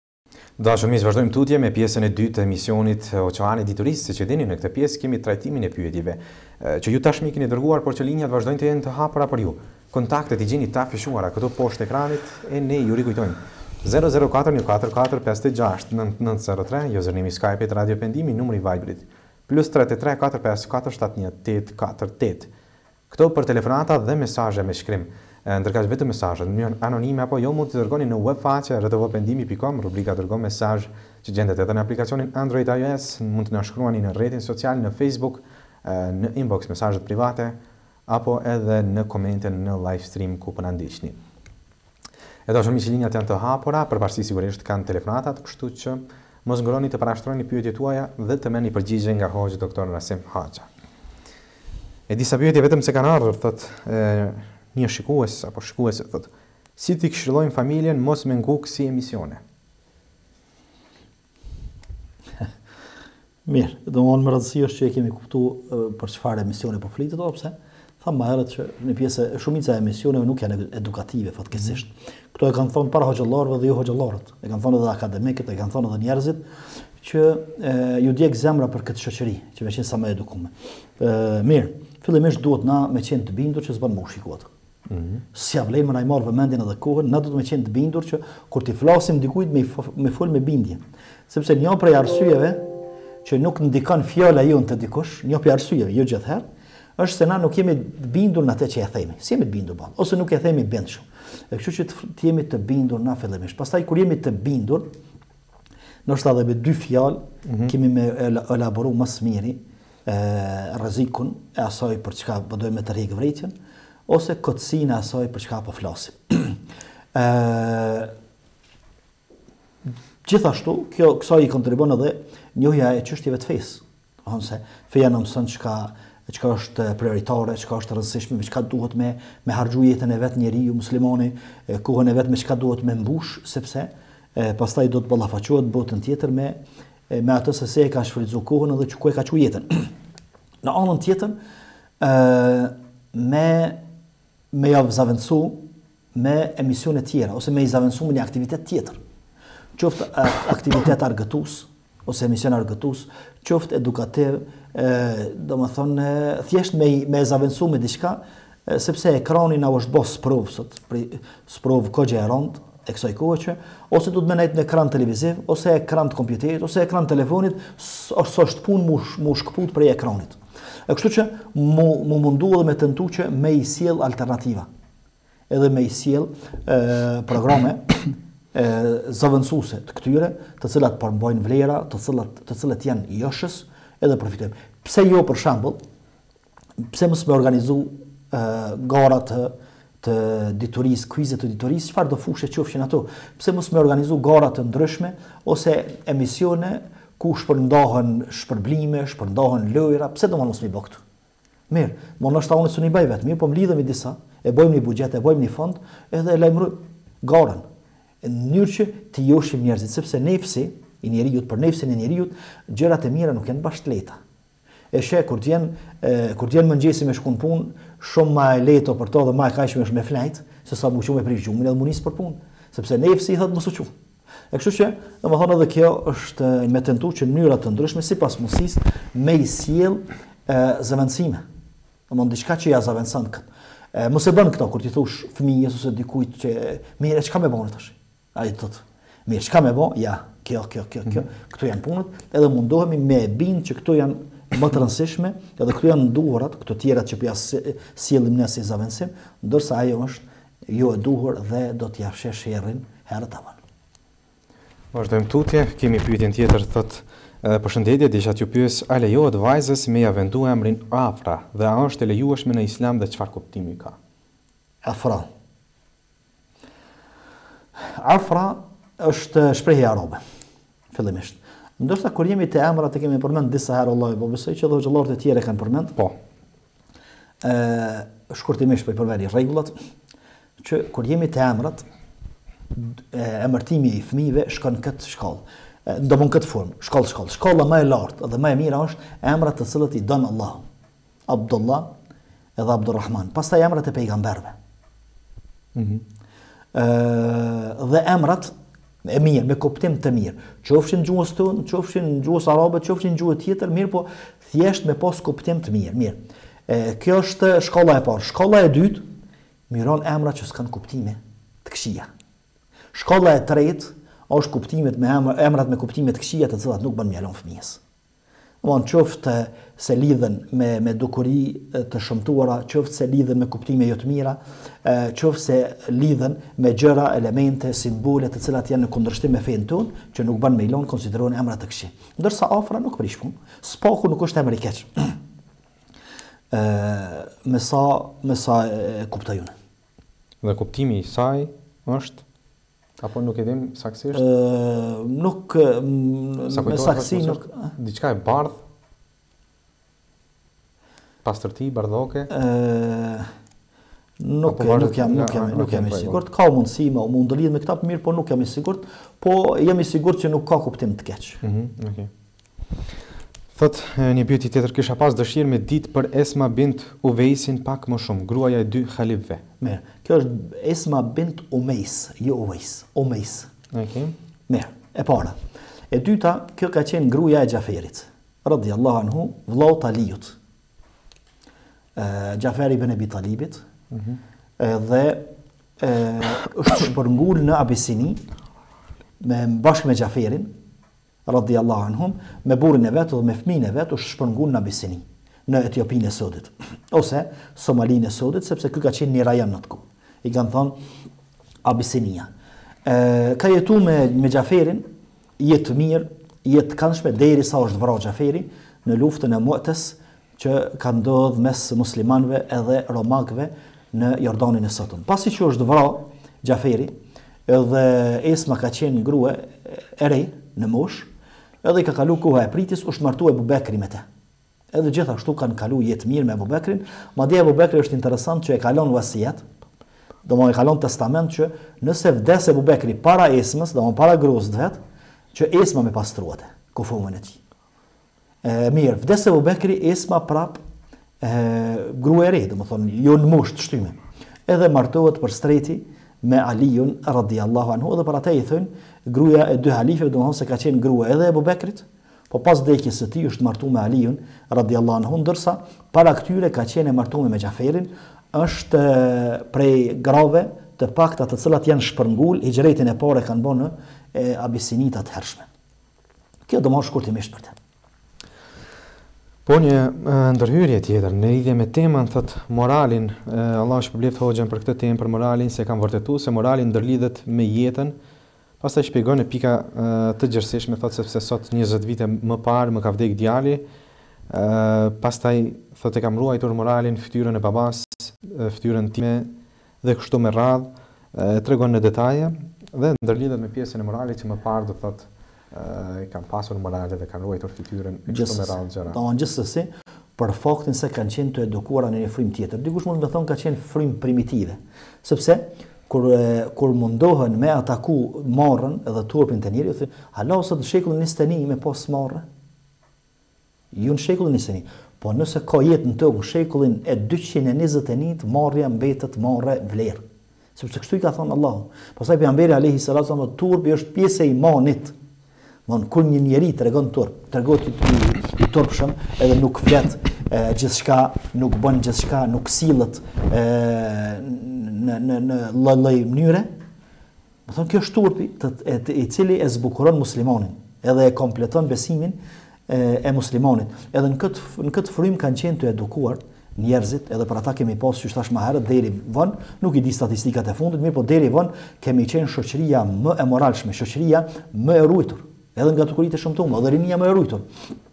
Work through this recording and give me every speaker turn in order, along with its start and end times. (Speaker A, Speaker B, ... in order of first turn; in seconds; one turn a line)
Speaker A: 0.6-22.5
Speaker A: 23.1-41.2
Speaker A: 42.5-50.7
Speaker A: 52.1-59.4
Speaker B: 63.5-76.4
Speaker B: 77.0-84.5
Speaker A: 84.9-85.2
Speaker B: 85.3-92.7
Speaker B: 93.2-96.5
Speaker B: 97.0-104.9
Speaker B: 106.1-113.5
Speaker A: 107.5-107.7
Speaker B: 114.1-116.6
Speaker B: 117.2-118.1
Speaker B: 120.2-136.6
Speaker B: 137.1-139.9
Speaker B: 140.6-141.4
Speaker B: 142.0-143.8
Speaker B: 144.5-145.6
Speaker B: 146.2-149.0
Speaker B: 149.8-174.7
Speaker B: 175.5-177.9
Speaker B: 178.5-185.8
Speaker B: 186.8-201.0
Speaker B: 201.7-207.6
Speaker B: 208.2-214.2
Speaker B: 214.9-223.9
Speaker B: 224.5-231.4
Speaker B: 232.1-253.6
Speaker A: 254.9-264.0
Speaker B: 264.8-265.3
Speaker B: 267.9-270.2
Speaker B: 270.9-276.0
Speaker B: 277.4-279.7
Speaker B: 280.6-281.9
Speaker B: 282.7-290.6
Speaker B: 291.3-291.9
Speaker B: 292.6-294.6
Speaker A: 295.8-296.0
Speaker B: 296.7-298.5
Speaker B: 299.0-309.1
Speaker B: 309.7-312.1
Speaker B: 312.9-317.8
Speaker B: 318.6-335.2
Speaker B: 336.5-339.5
Speaker A: 340.4-342.2
Speaker A: 343.0-344.2
Speaker B: 344.1-347.7
Speaker A: 346.5-348.6
Speaker A: 351.2-352.3
Speaker B: 352.3-353.3
Speaker B: 354.2-361.4
Speaker A: 354.5-356.2
Speaker A: 361.4-362.1
Speaker A: 363.5-369.4
Speaker B: 369.6-373.5
Speaker A: 373.7-374.1
Speaker B: 374.5-375.4
Speaker B: 375.9-380.4
Speaker B: 382.0-383.6
Speaker A: 383.9-384.2
Speaker B: 384.6-385.3
Speaker B: 385.8-388.2
Speaker B: 389.2-390.5
Speaker B: 391.3-400.8
Speaker B: 401.6-402.3
Speaker B: 402.9-404.9
Speaker B: 405.4-416.9
Speaker B: 417.5-421.1
Speaker B: 421.6-424.0
Speaker B: 424.7-429.4
Speaker B: 430.2-434.8
Speaker B: 435.3-437.4
Speaker B: 438.4-440.6
Speaker B: 441.2-465.5
Speaker B: 466.5-467.6
Speaker A: 469.5-478.0
Speaker A: 478.6-483.6
Speaker A: 484.3-489.3
Speaker A: 489.8-499.0
Speaker B: 498.1-512.2
Speaker B: 513.7-520.0
Speaker B: 520.6-524.9
Speaker B: 525.7-536.5
Speaker B: 537.5-557.5